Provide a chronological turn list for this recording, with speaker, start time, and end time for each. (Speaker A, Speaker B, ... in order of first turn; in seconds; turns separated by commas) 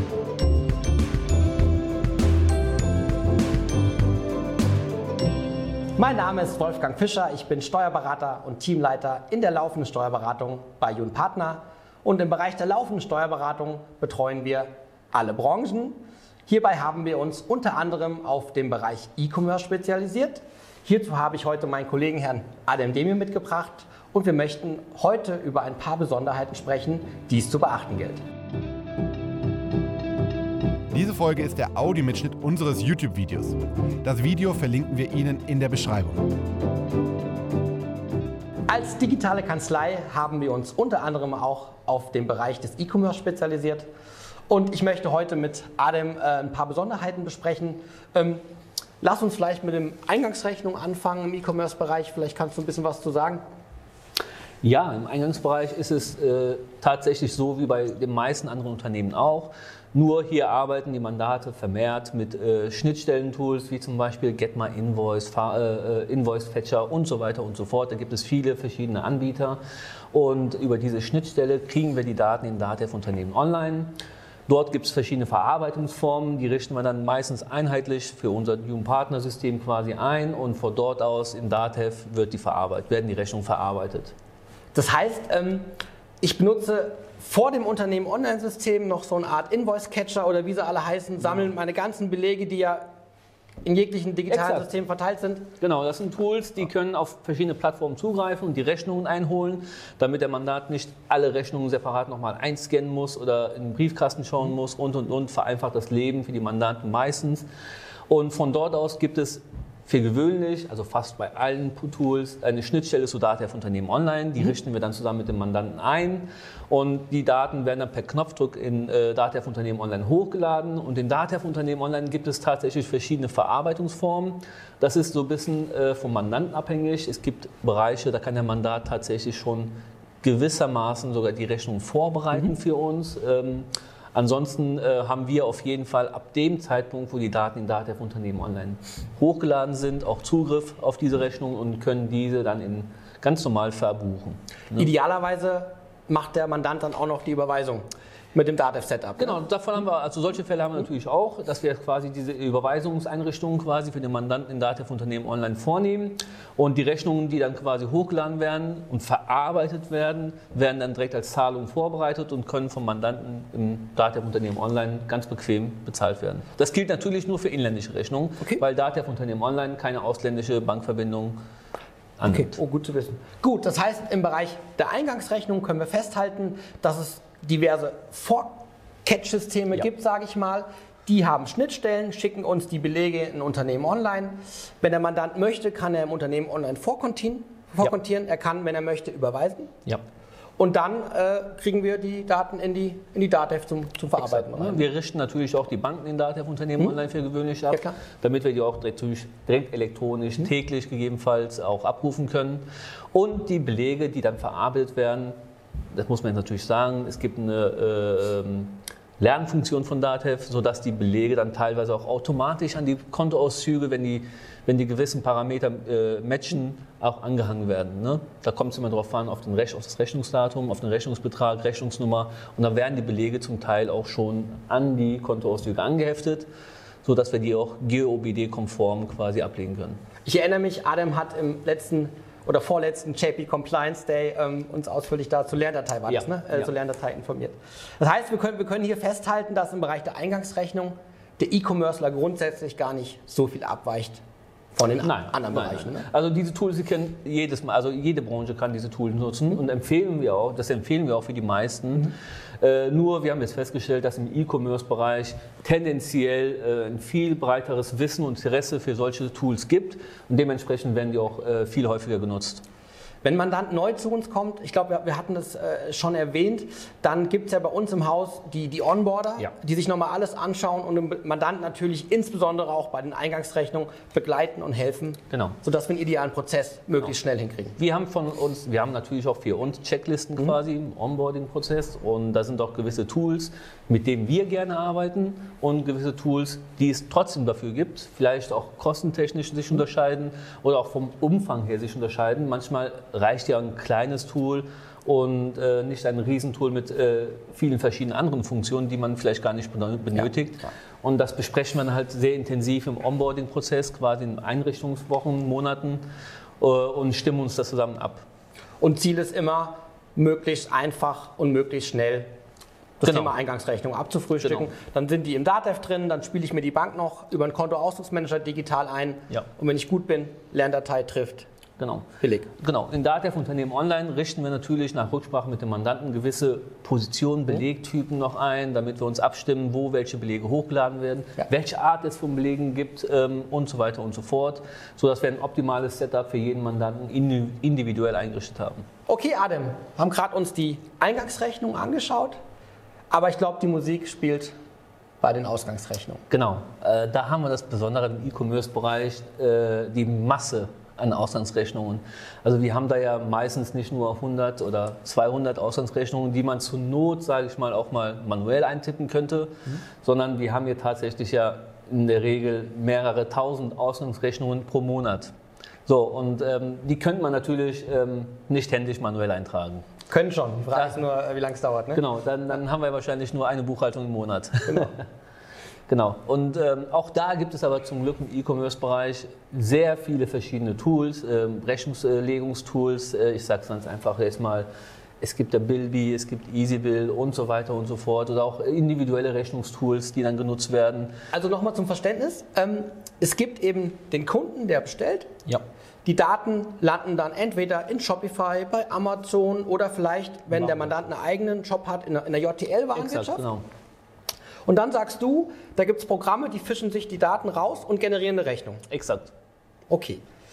Speaker A: 6.0-28.2, Speaker B: 30.9-36.3, Speaker A: 38.7-43.9, Speaker A: 44.5-48.4, Speaker A: 49.0-53.4, Speaker C: 54.6-69.6, Speaker C: 70.1-73.9, Speaker C: 74.5-84.1, Speaker A: 84.7-85.7, Speaker A: 86.2-92.8, Speaker A: 93.6-95.5, Speaker C: 94.3-94.7, Speaker C: 95.6-107.5, Speaker C: 108.1-144.9, Speaker A: 144.8-149.4, Speaker C: 149.2-171.4, Speaker C: 172.2-172.6, Speaker A: 172.2-189.7, Speaker A: 190.6-194.8, Speaker C: 194.2-205.3, Speaker C: 205.9-226.5, Speaker C: 227.0-230.0, Speaker A: 230.2-244.2, Speaker C: 236.1-236.7, Speaker A: 244.8-246.1, Speaker C: 245.0-262.6, Speaker A: 263.2-277.8, Speaker C: 275.3-275.6, Speaker C: 277.8-306.0, Speaker C: 306.6-308.2, Speaker A: 308.8-312.3, Speaker A: 313.0-321.5, Speaker C: 313.0-313.3, Speaker C: 314.4-314.7, Speaker C: 321.8-322.1, Speaker A: 322.2-322.5, Speaker C: 322.6-338.8, Speaker A: 339.1-342.4, Speaker A: 343.1-344.5, Speaker A: 345.2-346.2, Speaker C: 346.3-365.3, Speaker C: 365.9-369.9, Speaker A: 370.1-372.0, Speaker C: 370.7-371.0, Speaker C: 371.9-375.0, Speaker C: 375.9-384.7, Speaker C: 385.2-391.1, Speaker A: 391.3-395.3, Speaker A: 396.1-403.4, Speaker C: 400.5-401.0, Speaker C: 402.9-403.6, Speaker A: 404.7-408.8, Speaker C: 408.9-409.3, Speaker A: 409.9-410.2